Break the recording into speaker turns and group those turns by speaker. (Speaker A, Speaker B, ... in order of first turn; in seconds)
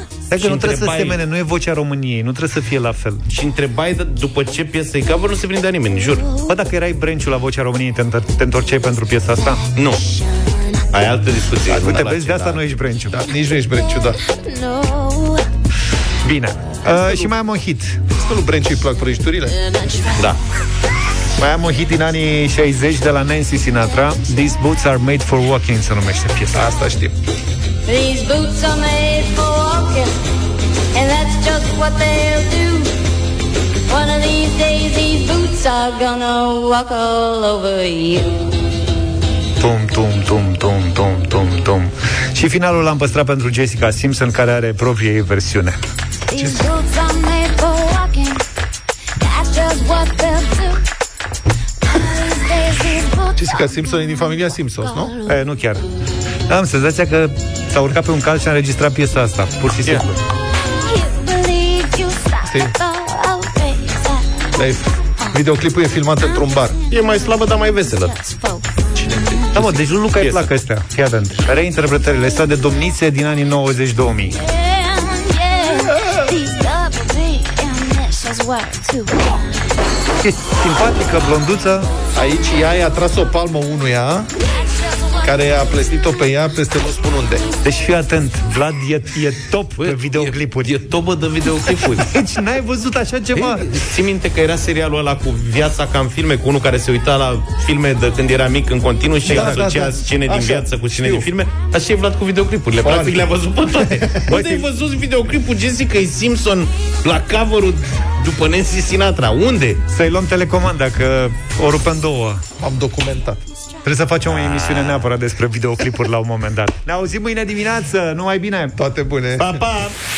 Speaker A: 0.3-3.2, 6.5-9.7, 11.7-13.2, 16.2-18.0, 21.4-26.7, 39.6-45.8, 55.2-55.9, 56.5-60.2, 69.5-74.4, 80.2-81.9, 87.6-90.8, 92.1-93.7, 99.3-99.6, 109.9-112.4, 113.8-118.8
Speaker B: 0.4-1.2, 3.3-6.3, 9.8-10.0, 10.9-12.6, 66.9-68.2, 69.5-70.5, 89.8-92.1, 93.3-109.8, 119.4-119.9
Speaker C: 10.2-10.6, 14.2-15.5, 19.6-20.3, 27.9-30.1, 30.9-32.9, 33.9-38.5, 46.3-48.4, 49.2-50.8, 51.9-55.2, 60.8-64.5, 66.2-69.5, 74.4-79.4
Speaker D: 13.1-14.2, 16.8-17.3, 18.1-19.6, 26.5-27.1, 46.4-46.6, 53.3-55.1, 62.5-62.7, 64.5-66.8, 82.1-84.3, 85.2-87.5, 99.2-101.3, 102.8-103.2, 103.8-104.6, 112.6-113.4, 118.8-119.6